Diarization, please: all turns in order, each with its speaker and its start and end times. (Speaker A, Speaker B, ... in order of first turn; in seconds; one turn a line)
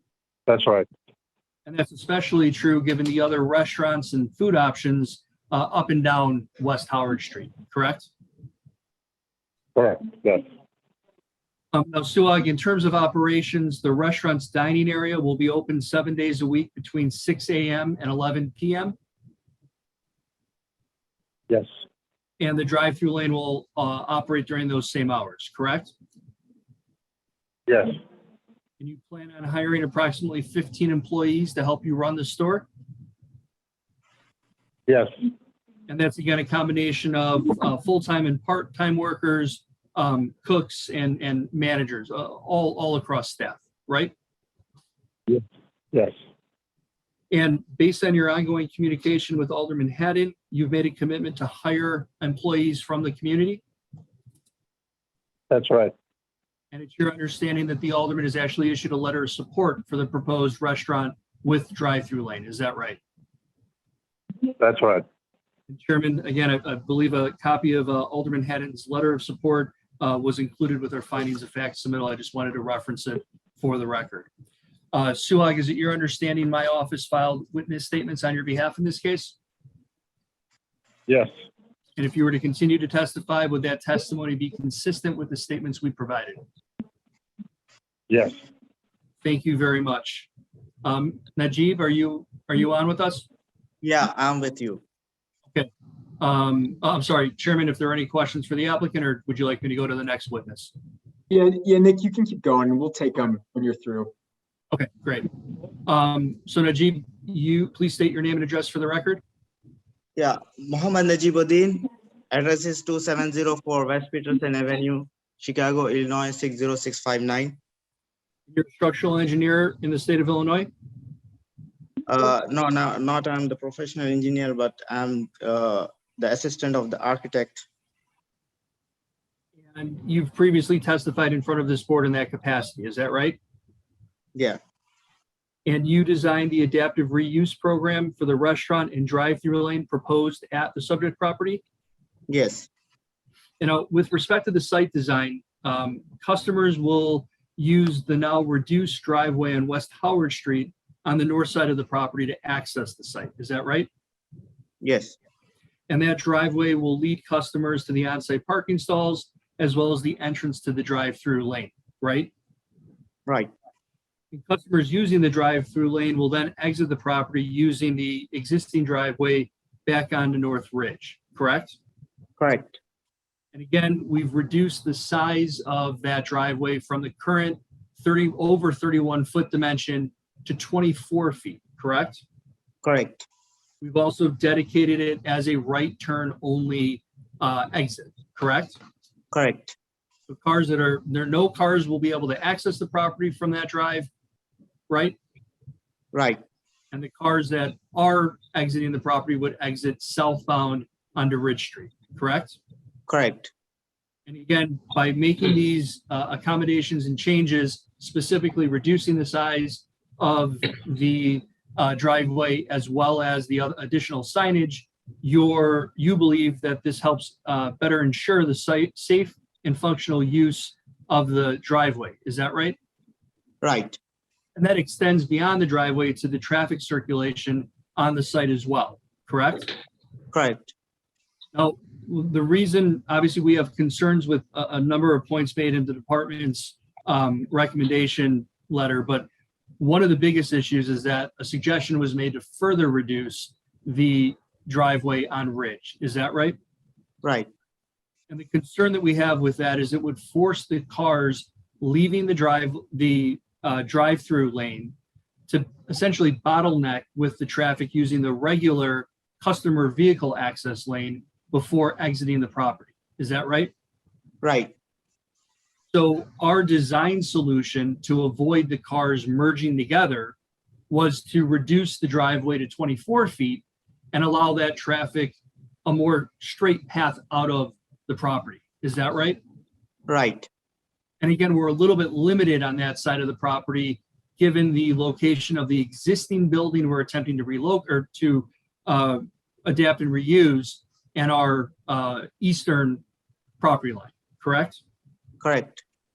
Speaker A: 0.5-0.9
Speaker B: 1.6-8.1
Speaker A: 9.8-10.4
Speaker B: 11.7-18.9
Speaker B: 22.4-25.9
Speaker A: 27.7-27.9
Speaker B: 28.8-32.7
Speaker B: 35.9-44.1
Speaker A: 45.3-46.1
Speaker B: 47.3-53.6
Speaker A: 55.5-55.9
Speaker B: 56.7-63.0
Speaker A: 64.6-65.0
Speaker B: 65.7-74.3
Speaker B: 74.9-79.4
Speaker B: 82.0-86.4
Speaker A: 88.1-88.4
Speaker B: 89.2-90.3
Speaker B: 90.8-93.2
Speaker C: 93.8-94.8
Speaker B: 96.2-100.7
Speaker D: 101.3-104.1
Speaker B: 104.7-105.3
Speaker B: 105.8-109.2
Speaker C: 110.2-117.6
Speaker B: 118.5-120.7
Speaker C: 122.0-127.7
Speaker B: 129.7-133.4
Speaker B: 135.7-141.6
Speaker C: 142.3-142.7
Speaker B: 143.6-153.9
Speaker C: 154.8-155.2
Speaker B: 155.9-162.3
Speaker C: 163.2-163.5
Speaker B: 164.3-171.8
Speaker C: 172.4-172.8
Speaker B: 173.5-182.2
Speaker C: 182.8-183.2
Speaker B: 183.8-188.8
Speaker C: 189.3-189.7
Speaker B: 190.3-194.1
Speaker B: 194.9-195.2
Speaker C: 196.1-196.4
Speaker B: 196.9-202.6
Speaker C: 203.1-203.5
Speaker B: 204.2-222.8
Speaker C: 223.6-224.0
Speaker B: 224.6-229.7
Speaker C: 230.3-230.7
Speaker B: 231.5-239.3
Speaker B: 239.8-246.6
Speaker C: 247.2-247.5
Speaker B: 248.3-254.9
Speaker B: 255.5-263.7
Speaker C: 264.4-264.7
Speaker B: 265.9-270.4
Speaker B: 270.9-279.4
Speaker C: 280.1-280.5
Speaker B: 281.2-293.0
Speaker B: 293.6-294.8
Speaker C: 295.4-295.8